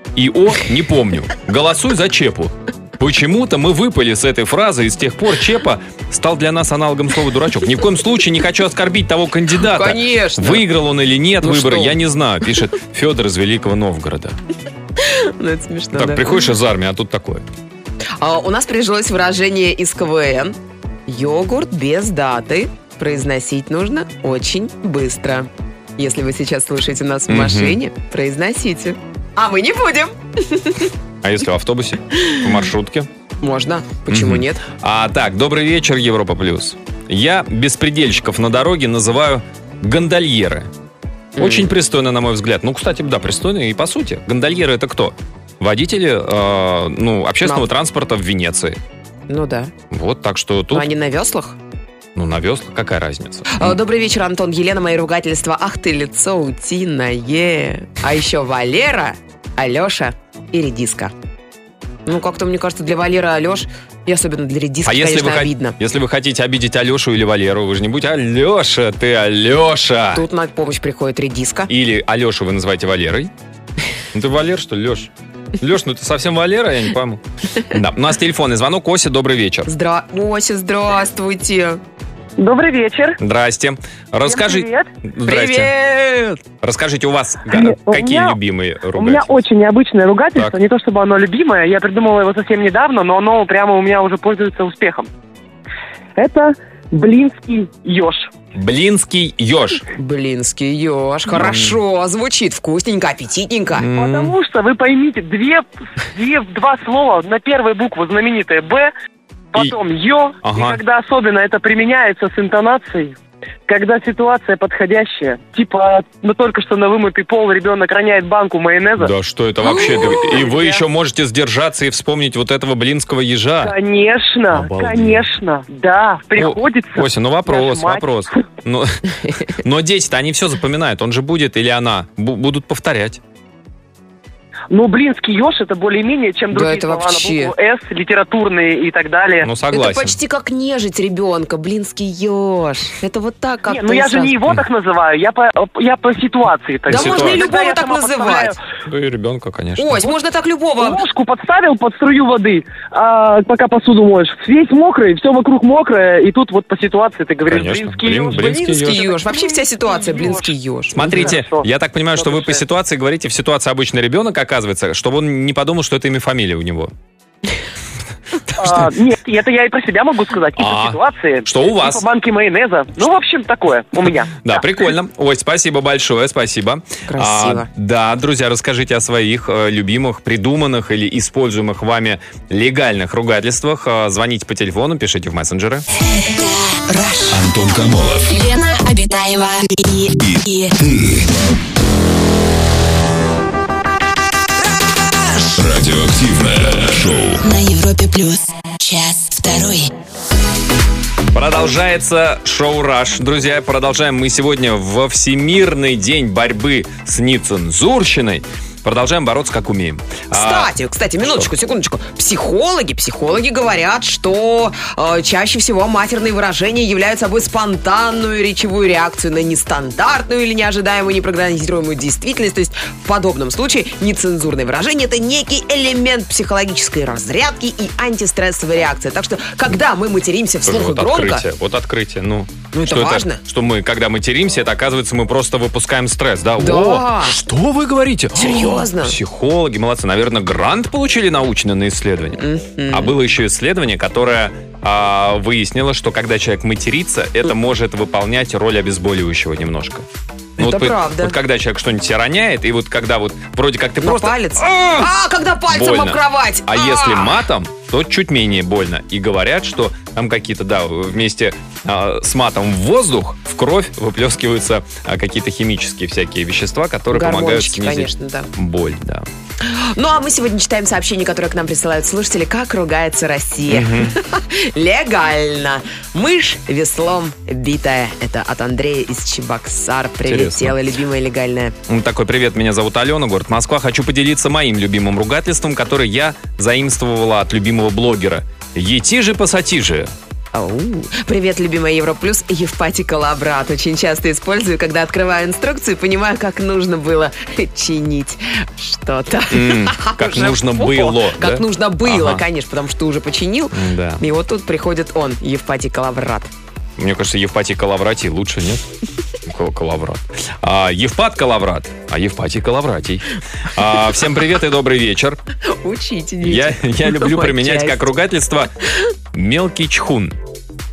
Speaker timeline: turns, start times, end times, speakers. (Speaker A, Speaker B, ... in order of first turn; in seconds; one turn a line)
Speaker A: 0.1-14.4
Speaker B: 9.7-10.7
Speaker B: 11.4-12.0
Speaker B: 15.0-16.5
Speaker A: 15.9-17.5
Speaker B: 18.2-30.9
Speaker A: 27.3-27.8
Speaker A: 31.2-33.1
Speaker B: 32.1-32.5
Speaker B: 33.4-34.6
Speaker A: 34.1-40.7
Speaker B: 41.4-41.7
Speaker A: 41.4-48.8
Speaker B: 49.3-49.7
Speaker A: 49.9-50.9
Speaker B: 50.7-51.5
Speaker A: 52.1-53.8
Speaker B: 53.5-61.1
Speaker B: 62.0-65.8
Speaker A: 64.8-70.2
Speaker B: 70.1-71.7
Speaker A: 71.7-73.3
Speaker A: 74.1-79.7
Speaker B: 79.7-81.8
Speaker C: 82.4-83.2
Speaker A: 83.2-85.7
Speaker C: 84.2-84.9
Speaker B: 85.2-86.4
Speaker A: 86.6-89.4
Speaker C: 87.5-88.4
Speaker C: 88.9-95.1
Speaker C: 96.2-98.3
Speaker A: 98.5-99.8
Speaker B: 99.9-103.9
Speaker A: 101.3-101.8
Speaker A: 103.7-104.3
Speaker C: 104.0-108.9
Speaker C: 109.5-113.2
Speaker A: 110.4-110.8
Speaker C: 113.7-119.1
Speaker A: 119.0-123.8
Speaker B: 119.6-120.3
Speaker C: 119.7-120.8
Speaker C: 123.6-128.4
Speaker A: 124.5-125.3
Speaker A: 126.4-129.0
Speaker A: 129.6-133.2
Speaker C: 134.7-139.5
Speaker B: 136.5-137.5
Speaker A: 139.4-140.2
Speaker B: 139.7-144.3
Speaker C: 143.7-148.6
Speaker A: 146.9-147.5
Speaker B: 146.9-148.6
Speaker A: 148.9-150.1
Speaker B: 149.8-151.0
Speaker C: 150.8-161.6
Speaker A: 157.4-159.1
Speaker B: 158.3-161.3
Speaker A: 160.9-166.9
Speaker C: 162.2-162.6
Speaker A: 168.5-168.9
Speaker C: 168.6-174.6
Speaker A: 170.6-172.0
Speaker A: 174.4-185.9
Speaker B: 177.1-177.7
Speaker D: 186.0-187.5
Speaker E: 187.3-188.3
Speaker D: 188.3-190.8
Speaker E: 190.2-191.4
Speaker E: 195.5-197.5
Speaker D: 197.4-199.9
Speaker A: 201.3-211.5
Speaker B: 210.3-231.5
Speaker A: 230.7-250.1
Speaker B: 232.7-233.4
Speaker B: 236.6-237.4
Speaker B: 238.3-239.2
Speaker B: 242.4-243.2
Speaker B: 250.6-251.3
Speaker A: 250.6-255.1
Speaker B: 254.0-257.4
Speaker A: 255.7-269.3
Speaker B: 267.1-268.5
Speaker B: 269.6-281.8
Speaker A: 273.7-274.1
Speaker A: 280.2-280.8
Speaker A: 281.9-290.1
Speaker B: 290.5-306.5
Speaker A: 299.5-302.4
Speaker A: 303.7-304.2
Speaker A: 307.0-308.8
Speaker A: 309.5-315.4
Speaker B: 315.6-318.1
Speaker A: 316.4-318.7
Speaker A: 319.3-320.4